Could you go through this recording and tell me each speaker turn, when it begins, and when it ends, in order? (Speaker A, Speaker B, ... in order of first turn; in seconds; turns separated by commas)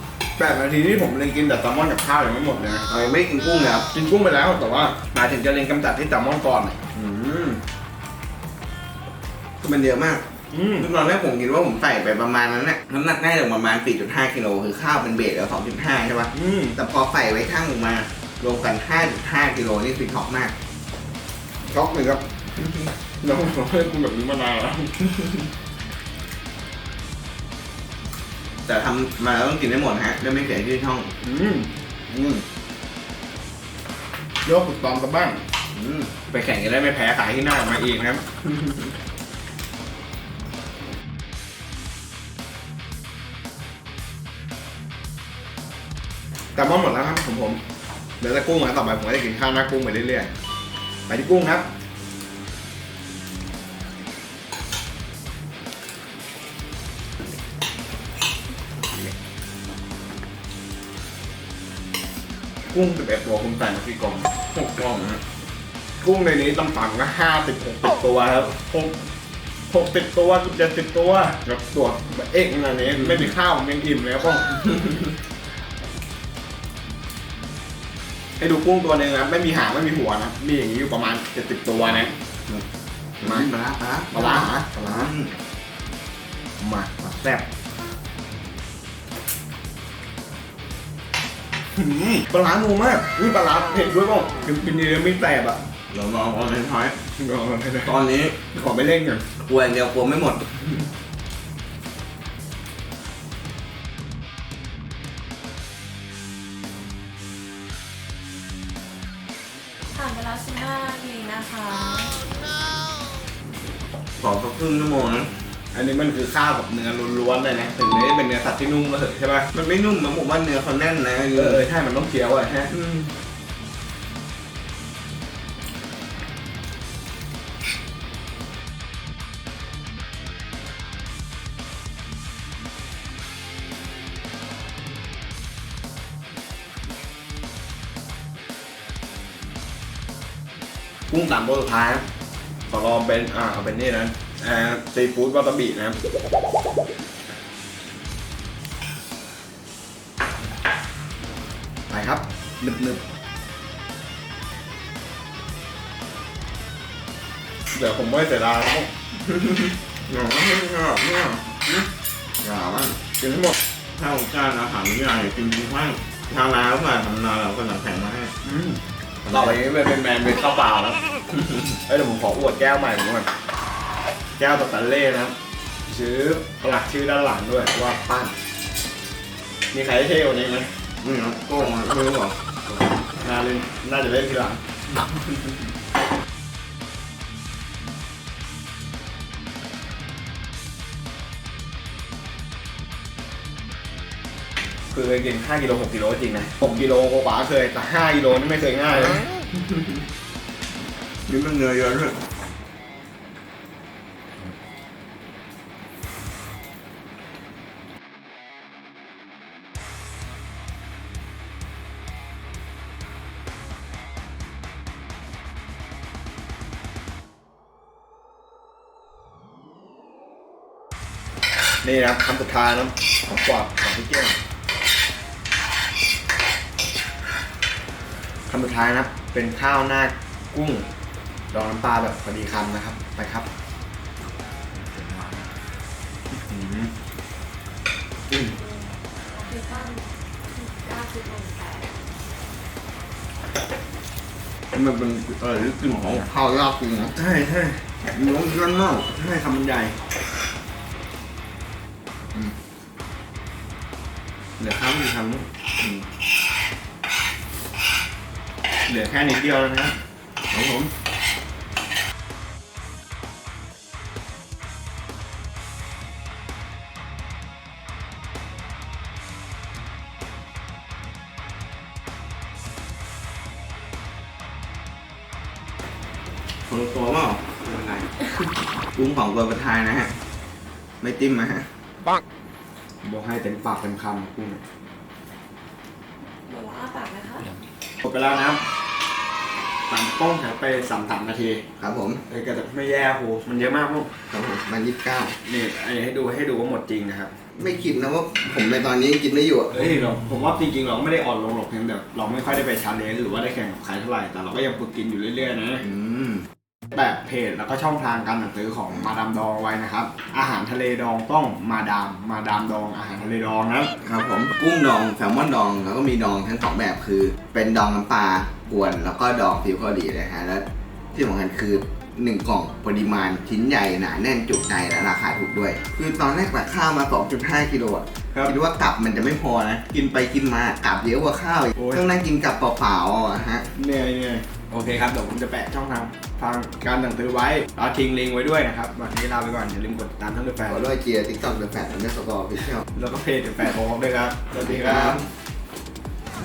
Speaker A: 0.4-2.8, Speaker B: 2.9-3.9, Speaker A: 3.9-6.9, Speaker B: 7.0-7.6, Speaker B: 9.6-10.2, Speaker A: 10.5-10.9, Speaker B: 10.8-20.5, Speaker A: 16.3-16.8, Speaker A: 21.7-22.2, Speaker B: 22.6-22.9, Speaker A: 23.2-24.9, Speaker B: 28.6-31.1, Speaker A: 31.2-31.7, Speaker B: 32.1-32.4, Speaker A: 34.4-35.4, Speaker B: 35.7-36.1, Speaker A: 36.3-38.2, Speaker B: 38.4-38.9, Speaker A: 46.5-47.6, Speaker A: 48.2-50.3, Speaker A: 51.1-51.7, Speaker A: 62.7-64.4, Speaker B: 64.5-65.2, Speaker A: 66.0-69.0, Speaker A: 69.7-74.6, Speaker B: 73.0-73.3, Speaker A: 78.4-82.1, Speaker B: 83.2-85.3, Speaker A: 83.2-83.5, Speaker A: 84.1-85.1, Speaker A: 86.6-87.4, Speaker A: 91.7-95.6, Speaker B: 95.9-97.0, Speaker A: 97.1-98.0, Speaker B: 97.8-98.3, Speaker A: 98.5-99.2, Speaker B: 99.4-100.8, Speaker C: 109.9-112.2, Speaker B: 114.2-115.3, Speaker A: 115.7-119.5, Speaker B: 119.5-121.6, Speaker A: 121.3-122.7, Speaker B: 122.7-123.1, Speaker A: 141.1-142.0, Speaker A: 142.7-146.0, Speaker A: 151.9-153.0, Speaker A: 157.7-158.9, Speaker B: 159.2-159.7, Speaker A: 160.1-161.8, Speaker B: 162.4-163.0, Speaker A: 163.2-163.5, Speaker B: 163.9-168.3, Speaker A: 168.4-171.0, Speaker B: 169.2-169.5, Speaker B: 171.3-171.8, Speaker A: 171.9-173.3, Speaker A: 174.4-175.3, Speaker A: 175.9-178.3, Speaker A: 179.7-180.7, Speaker B: 181.0-182.4, Speaker A: 183.2-184.6, Speaker A: 194.9-199.2, Speaker B: 199.4-199.9, Speaker B: 201.3-202.2, Speaker A: 221.8-224.4, Speaker A: 228.5-230.8, Speaker A: 231.5-233.5, Speaker A: 236.5-236.9, Speaker C: 238.5-241.9, Speaker A: 244.7-246.2, Speaker B: 245.9-247.2, Speaker A: 247.1-247.8, Speaker B: 248.1-248.4, Speaker A: 248.3-249.9, Speaker A: 254.6-255.4, Speaker B: 255.8-256.0, Speaker A: 258.9-259.9, Speaker B: 260.5-260.9, Speaker B: 276.7-277.4, Speaker A: 277.7-278.0, Speaker B: 278.9-280.1, Speaker B: 281.0-281.7, Speaker A: 283.0-284.6, Speaker C: 286.4-287.6, Speaker A: 288.0-288.6, Speaker A: 289.9-291.6, Speaker B: 291.8-292.2, Speaker A: 292.3-294.1, Speaker B: 294.3-295.4, Speaker A: 295.4-297.3, Speaker B: 297.6-299.7, Speaker A: 299.7-305.8, Speaker B: 305.8-306.4, Speaker A: 306.9-313.9, Speaker B: 314.0-333.7, Speaker A: 331.7-332.0, Speaker A: 333.7-340.9, Speaker B: 340.7-342.8, Speaker A: 342.9-345.2, Speaker B: 344.6-345.2